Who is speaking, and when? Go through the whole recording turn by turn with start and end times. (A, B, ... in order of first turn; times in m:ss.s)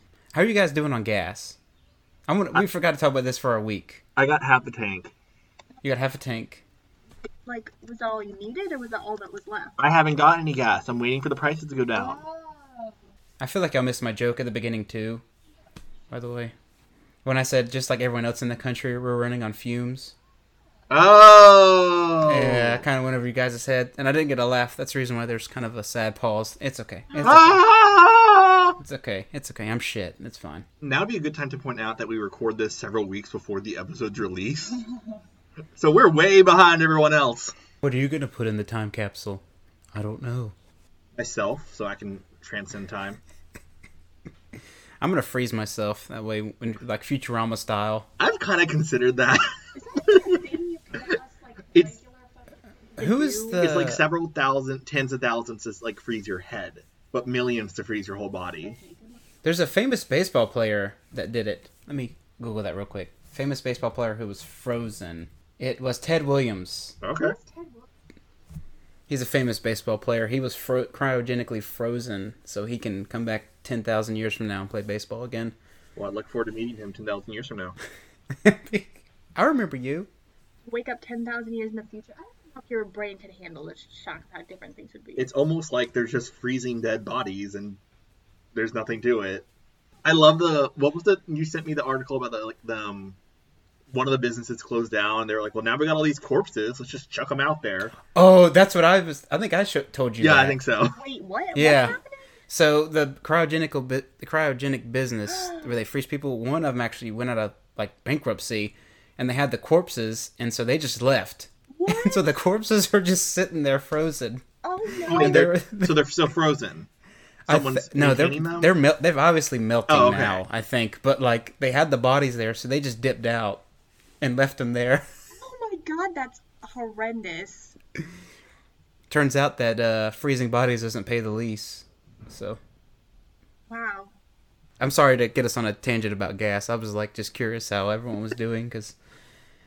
0:00.3-0:01.6 A
0:02.3-0:04.0 A
0:04.2-0:05.1 B
0:05.8-0:06.6 A
0:07.4-0:09.8 C
0:09.8-0:12.2 B
0:11.9-0:12.9 C
0:13.4-0:15.2 A
0:16.1-0:16.5 A
0:17.2-0:20.1 A
0:20.9-0:22.8 B
0:22.3-0:27.6 A
0:27.2-0:28.8 B
0:28.8-0:30.6 A
0:30.8-0:34.8 B
0:35.8-0:37.5 B
0:37.8-0:39.4 A
0:39.9-0:40.5 A
0:41.2-0:43.2 B
0:45.0-0:48.1 A
0:48.2-0:50.4 B
0:49.7-0:53.6 C
0:53.0-0:54.0 A
0:53.5-0:58.8 B
0:58.6-0:59.3 C
0:59.4-1:07.0 A
1:07.0-1:07.4 B
1:07.2-1:07.9 C
1:09.1-1:15.5 A
1:16.0-1:17.8 B
1:18.4-1:20.1 A
1:20.6-1:25.3 C
1:25.2-1:27.8 B
1:28.5-1:29.4 B
1:30.0-1:33.2 B
1:33.9-1:37.9 B
1:38.1-1:40.6 A
1:40.2-1:41.0 B
1:40.9-1:42.2 C
1:41.5-1:42.0 A
1:42.5-1:54.4 A
1:45.3-1:45.7 C
1:51.7-1:52.2 C
1:54.6-1:55.4 C
1:54.9-1:56.0 A
1:55.1-1:56.9 B
1:57.5-2:03.6 A
1:57.5-1:58.7 B
1:59.9-2:00.4 B
2:04.2-2:05.0 A
2:05.4-2:07.7 C
2:09.1-2:12.6 A
2:13.7-2:14.1 C
2:14.8-2:18.9 A